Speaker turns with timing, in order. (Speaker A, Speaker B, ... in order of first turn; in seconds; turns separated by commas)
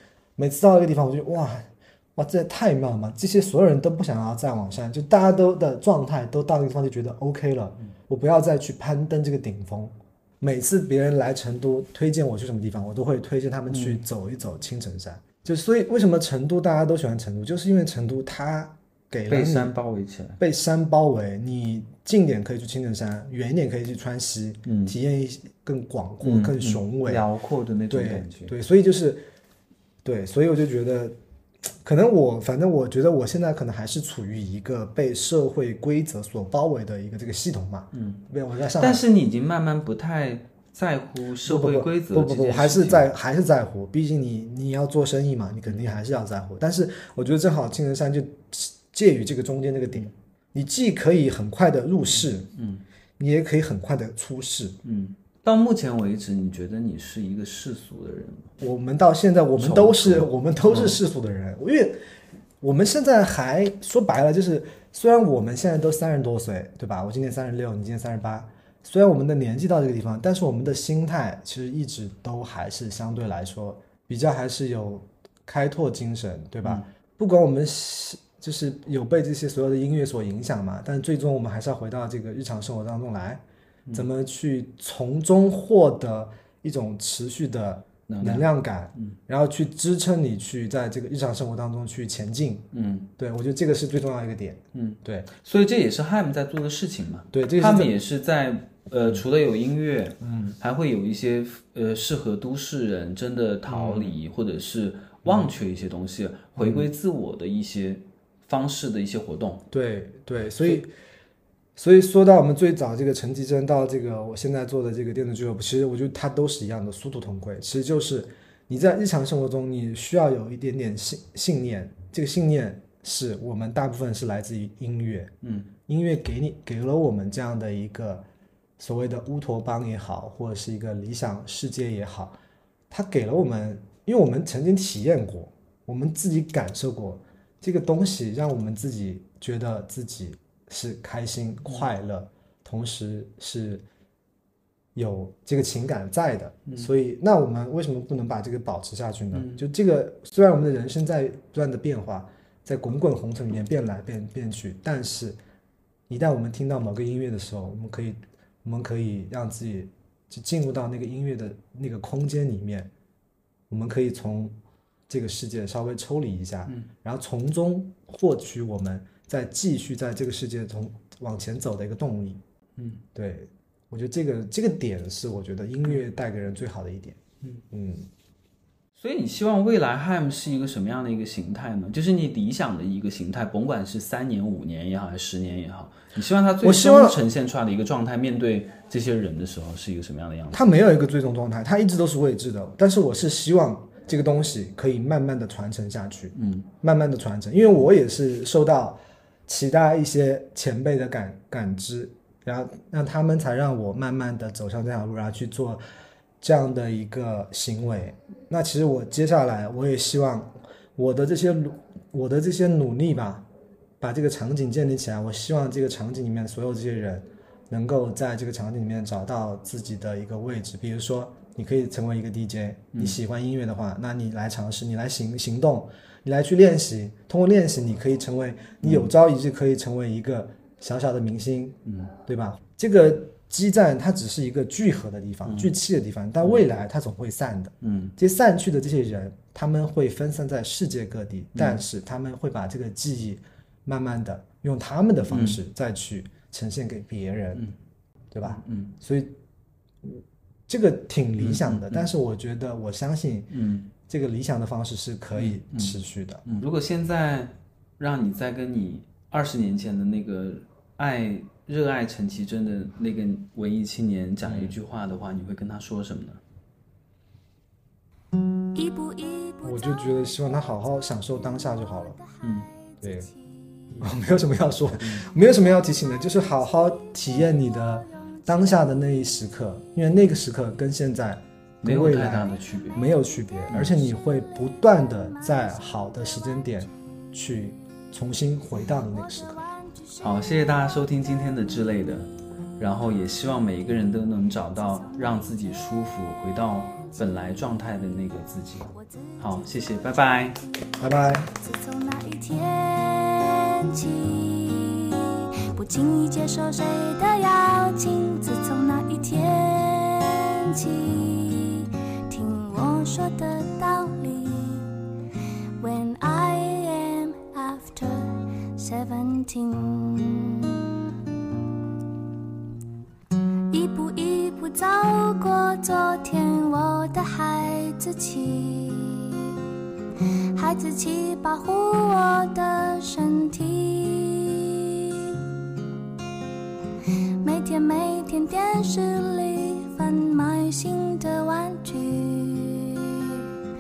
Speaker A: 0.4-19.7, Speaker B: 13.7-14.0, Speaker B: 19.3-20.4, Speaker A: 20.4-27.3, Speaker B: 24.7-24.9, Speaker B: 26.2-28.5, Speaker A: 27.9-29.2, Speaker A: 30.0-31.2, Speaker A: 31.7-39.0, Speaker B: 37.9-38.2, Speaker B: 38.8-43.1, Speaker A: 41.5-52.5, Speaker B: 52.5-52.8, Speaker A: 53.2-54.8, Speaker B: 54.8-58.5, Speaker A: 58.6-62.0, Speaker B: 59.6-61.0, Speaker A: 62.6-83.4, Speaker A: 83.9-92.7, Speaker B: 88.1-89.2, Speaker B: 92.7-93.1, Speaker A: 93.2-95.3, Speaker B: 94.7-109.6, Speaker A: 97.3-97.9, Speaker A: 100.2-100.6, Speaker A: 103.7-104.2, Speaker A: 105.2-105.5, Speaker A: 106.6-106.9, Speaker A: 109.7-110.9, Speaker A: 111.8-125.3, Speaker B: 125.4-125.7, Speaker A: 125.9-128.2, Speaker A: 128.8-132.4, Speaker A: 132.9-143.8, Speaker A: 144.9-155.4, Speaker B: 149.3-149.6, Speaker A: 156.1-162.9, Speaker A: 163.7-164.6, Speaker A: 165.1-172.4, Speaker B: 172.8-173.0, Speaker A: 173.2-177.2, Speaker A: 177.7-178.1, Speaker B: 179.0-190.6, Speaker A: 186.6-187.2, Speaker A: 190.5-205.8, Speaker B: 196.3-196.7, Speaker A: 206.4-213.5, Speaker A: 214.0-247.7, Speaker B: 222.9-223.2, Speaker B: 228.8-229.1, Speaker B: 231.9-232.1, Speaker B: 235.4-235.7, Speaker B: 237.8-238.1, Speaker B: 241.6-241.8, Speaker B: 245.3-245.6, Speaker A: 248.3-249.3, Speaker B: 248.4-248.9, Speaker A: 250.0-253.5, Speaker B: 251.4-252.1, Speaker B: 253.5-253.9, Speaker A: 254.1-256.4, Speaker B: 255.3-266.4, Speaker A: 264.5-264.7, Speaker C: 268.7-273.9, Speaker A: 269.6-272.2, Speaker B: 272.4-272.7, Speaker A: 273.0-273.3, Speaker A: 274.0-289.6, Speaker B: 275.0-275.3, Speaker C: 276.3-279.1, Speaker B: 281.8-283.0, Speaker B: 283.7-284.1, Speaker C: 284.2-286.8, Speaker C: 288.9-291.1, Speaker B: 290.2-292.3, Speaker B: 292.8-300.6, Speaker C: 294.9-297.7, Speaker C: 299.2-300.5, Speaker A: 301.0-301.5, Speaker C: 301.5-315.0, Speaker C: 315.8-321.1, Speaker C: 323.7-329.6, Speaker C: 330.6-335.5, Speaker C: 337.4-343.5